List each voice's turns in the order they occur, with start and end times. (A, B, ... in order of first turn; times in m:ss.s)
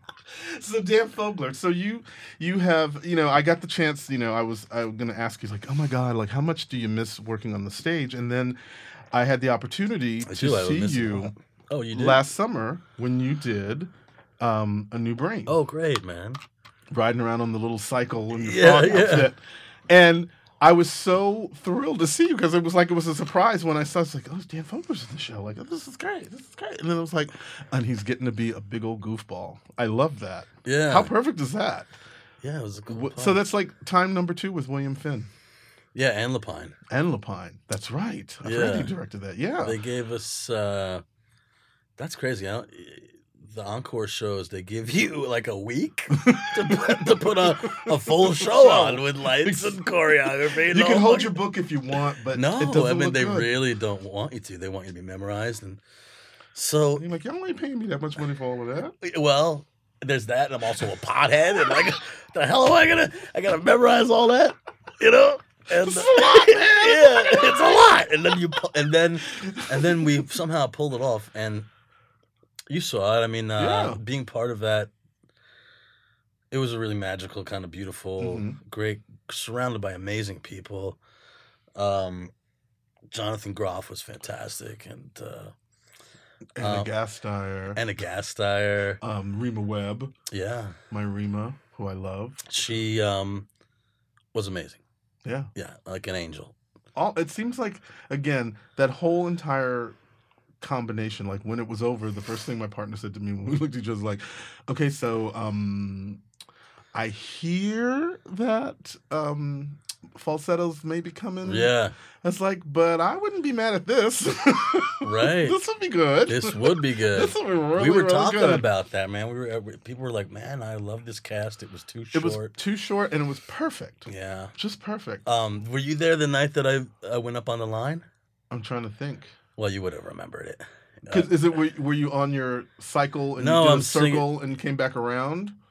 0:00.3-0:08.6 A
0:09.1-0:11.3 A
0:10.2-0:12.2 B
0:11.9-0:15.6 A
0:15.5-0:16.4 B
0:16.9-0:31.9 A
0:18.4-0:19.3 B
0:30.6-0:31.1 B
0:32.4-0:33.4 B
0:32.9-0:35.3 A
0:36.0-0:36.8 B
0:36.9-0:39.8 A
0:38.4-0:38.9 B
0:39.6-0:41.0 B
0:42.0-0:51.4 B
0:46.2-0:53.5 A
0:52.3-0:55.8 B
0:56.6-0:57.1 B
0:57.0-0:59.0 A
0:59.0-1:11.7 B
1:05.8-1:07.6 A
1:09.4-1:10.1 A
1:12.7-1:14.9 B
1:13.6-1:14.0 A
1:16.5-1:21.0 B
1:18.2-1:18.6 A
1:21.8-1:22.3 B
1:23.1-1:25.5 B
1:26.6-1:27.8 A
1:26.6-1:26.9 B
1:27.7-1:29.0 B
1:29.0-1:30.1 A
1:30.3-1:30.8 B
1:30.9-1:32.5 A
1:32.5-1:33.5 B
1:34.3-1:34.8 B
1:35.2-1:35.5 A
1:35.6-1:36.6 B
1:37.0-1:40.0 A
1:40.6-1:46.2 A
1:46.9-1:58.6 A
1:51.4-1:52.0 B
1:55.0-1:55.6 B
1:56.3-2:02.5 B
2:02.1-2:05.2 A
2:04.1-2:04.5 B
2:05.2-2:08.1 B
2:08.5-2:09.3 A
2:09.6-2:11.3 B
2:11.1-2:15.6 A
2:13.4-2:14.3 B